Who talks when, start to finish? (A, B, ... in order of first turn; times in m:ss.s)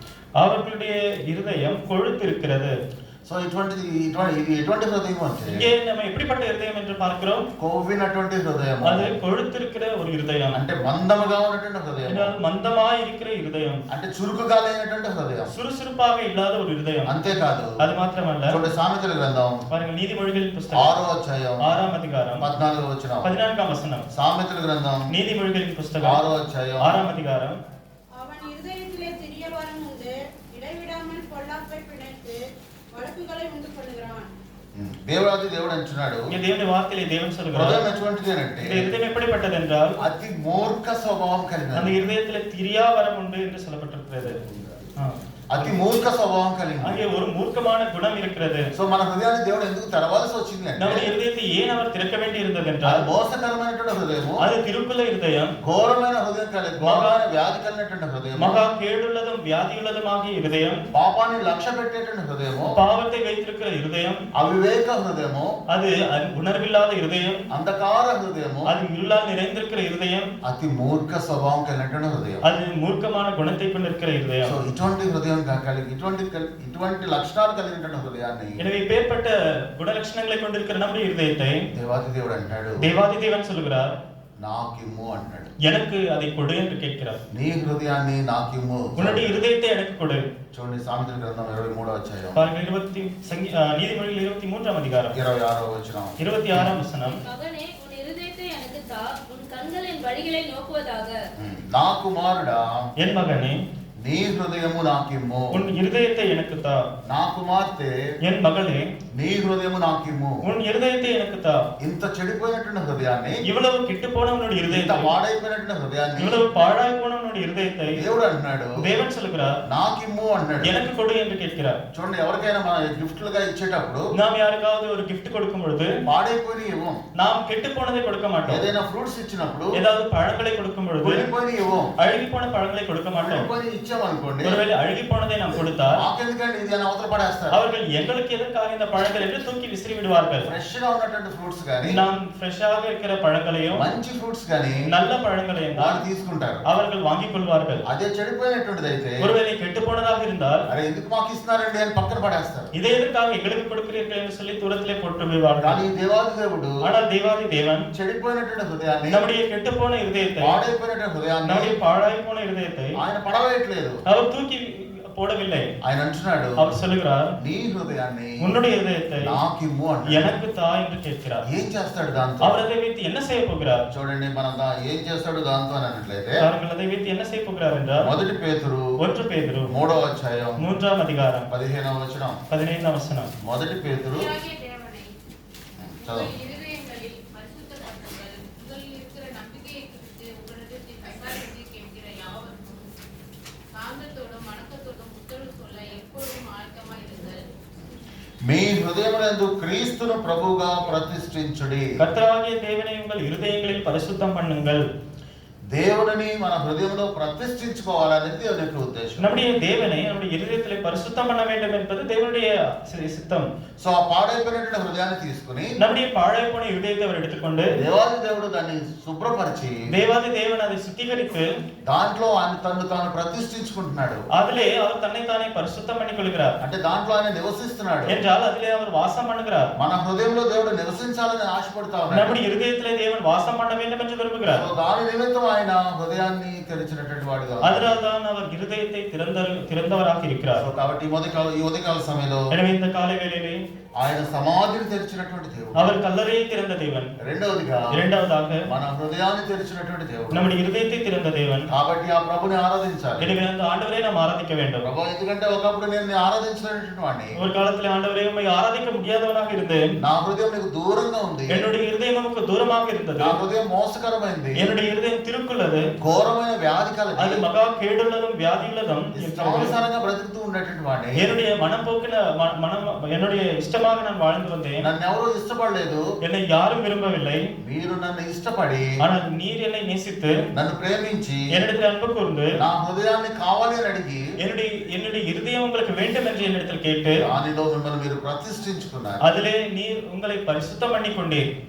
0:00.4-0:02.7 A
0:03.2-0:05.7 B
0:05.5-0:07.5 A
0:07.6-0:09.1 B
0:08.8-0:10.6 A
0:10.5-0:12.3 B
0:12.0-0:13.8 A
0:13.9-0:15.5 B
0:15.5-0:17.1 A
0:17.0-0:17.8 B
0:17.8-0:18.6 A
0:18.5-0:19.6 B
0:19.7-0:20.9 A
0:20.7-0:21.8 B
0:21.6-0:22.5 A
0:22.4-0:23.3 B
0:23.2-0:24.1 A
0:24.1-0:25.1 B
0:25.1-0:26.2 A
0:26.0-0:27.0 B
0:26.8-0:27.6 A
0:28.2-0:32.4 C
0:32.9-0:34.3 C
0:34.8-0:36.3 B
0:36.3-0:37.8 A
0:37.5-0:38.9 B
0:38.6-0:40.0 A
0:40.0-0:42.0 B
0:41.7-0:44.4 A
0:44.2-0:44.8 B
0:45.0-0:45.9 A
0:45.5-0:47.0 B
0:46.8-0:48.7 A
0:48.7-0:51.1 B
0:50.8-0:53.0 A
0:52.8-0:54.5 B
0:54.4-0:55.5 A
0:55.6-0:58.6 B
0:56.8-0:57.1 A
0:58.4-1:00.8 A
1:00.9-1:02.8 B
1:02.7-1:04.2 A
1:04.4-1:05.5 B
1:05.7-1:07.4 A
1:07.5-1:08.7 B
1:08.6-1:10.3 A
1:10.4-1:12.4 B
1:12.4-1:14.5 A
1:14.4-1:18.6 B
1:18.6-1:21.6 A
1:21.7-1:22.9 B
1:22.8-1:23.9 A
1:24.4-1:25.5 B
1:25.6-1:27.2 A
1:27.3-1:29.4 B
1:29.0-1:30.3 A
1:30.5-1:32.4 B
1:32.4-1:35.2 A
1:35.1-1:36.8 B
1:36.2-1:37.2 A
1:37.1-1:41.1 D
1:41.4-1:42.9 B
1:43.0-1:43.6 A
1:44.0-1:45.6 B
1:45.5-1:46.8 A
1:47.0-1:47.9 B
1:48.2-1:48.9 A
1:49.1-1:50.4 B
1:50.4-1:51.6 A
1:51.8-1:53.4 B
1:53.4-1:55.1 A
1:54.7-1:56.4 B
1:56.2-1:58.1 A
1:57.9-1:58.8 B
1:58.8-1:59.6 A
1:59.6-2:00.8 B
2:00.6-2:01.8 A
2:01.9-2:04.1 B
2:04.1-2:05.9 A
2:06.0-2:07.0 B
2:07.2-2:08.6 A
2:08.4-2:09.8 B
2:09.8-2:11.2 A
2:11.0-2:11.9 B
2:12.0-2:13.5 A
2:13.2-2:14.6 B
2:14.4-2:16.0 A
2:16.0-2:17.6 B
2:17.5-2:20.5 A
2:20.4-2:22.0 B
2:21.8-2:23.8 A
2:23.7-2:24.8 B
2:24.9-2:26.0 A
2:25.7-2:26.6 B
2:26.7-2:27.8 A
2:27.9-2:29.3 B
2:29.2-2:30.6 A
2:30.7-2:32.7 B
2:32.7-2:35.8 A
2:35.6-2:36.8 B
2:36.8-2:37.8 A
2:37.9-2:39.2 B
2:39.1-2:40.6 A
2:40.4-2:41.8 B
2:41.4-2:42.9 A
2:43.0-2:44.0 B
2:44.1-2:45.7 A
2:45.8-2:46.8 B
2:46.6-2:47.3 A
2:47.4-2:48.5 B
2:48.4-2:49.4 A
2:49.2-2:50.3 B
2:50.1-2:51.4 A
2:51.4-2:52.6 B
2:52.4-2:53.8 A
2:53.9-2:56.4 B
2:56.4-2:58.1 A
2:58.0-2:58.9 B
2:59.0-2:59.7 A
2:59.7-3:00.6 B
3:00.6-3:01.5 A
3:01.5-3:02.4 B
3:02.5-3:03.3 A
3:03.4-3:04.3 B
3:04.1-3:05.1 E
3:05.8-3:06.3 B
3:05.8-3:12.9 E
3:13.7-3:17.4 E
3:18.4-3:21.9 B
3:22.0-3:24.8 A
3:25.7-3:29.3 B
3:29.2-3:33.5 A
3:33.8-3:35.7 B
3:35.8-3:37.7 A
3:37.7-3:39.8 B
3:39.9-3:41.5 A
3:41.9-3:44.2 B
3:44.3-3:46.6 A
3:46.6-3:48.2 B
3:48.1-3:49.7 A
3:49.8-3:52.4 B
3:52.1-3:54.6 A
3:54.4-3:57.9 B
3:57.6-4:00.6 A
4:00.6-4:02.5 B
4:02.5-4:03.6 A
4:04.0-4:05.9 B
4:05.8-4:07.1 A
4:07.2-4:08.0 B
4:07.9-4:08.6 A
4:08.7-4:10.5 B
4:10.3-4:11.7 A
4:11.7-4:13.3 B
4:13.2-4:14.9 A
4:14.8-4:17.4 B
4:17.4-4:19.8 A
4:20.0-4:21.6 B
4:21.5-4:23.4 A
4:23.2-4:24.6 B
4:24.6-4:25.9 A
4:26.0-4:27.4 B
4:27.2-4:29.7 A
4:29.1-4:31.3 B
4:31.2-4:34.9 A
4:34.8-4:36.0 B
4:36.2-4:37.4 A
4:37.6-4:38.9 B
4:39.0-4:40.4 A
4:40.5-4:41.5 B
4:41.5-4:42.5 A
4:42.6-4:44.2 B
4:44.4-4:47.2 A
4:47.2-4:49.2 B
4:49.2-4:51.4 A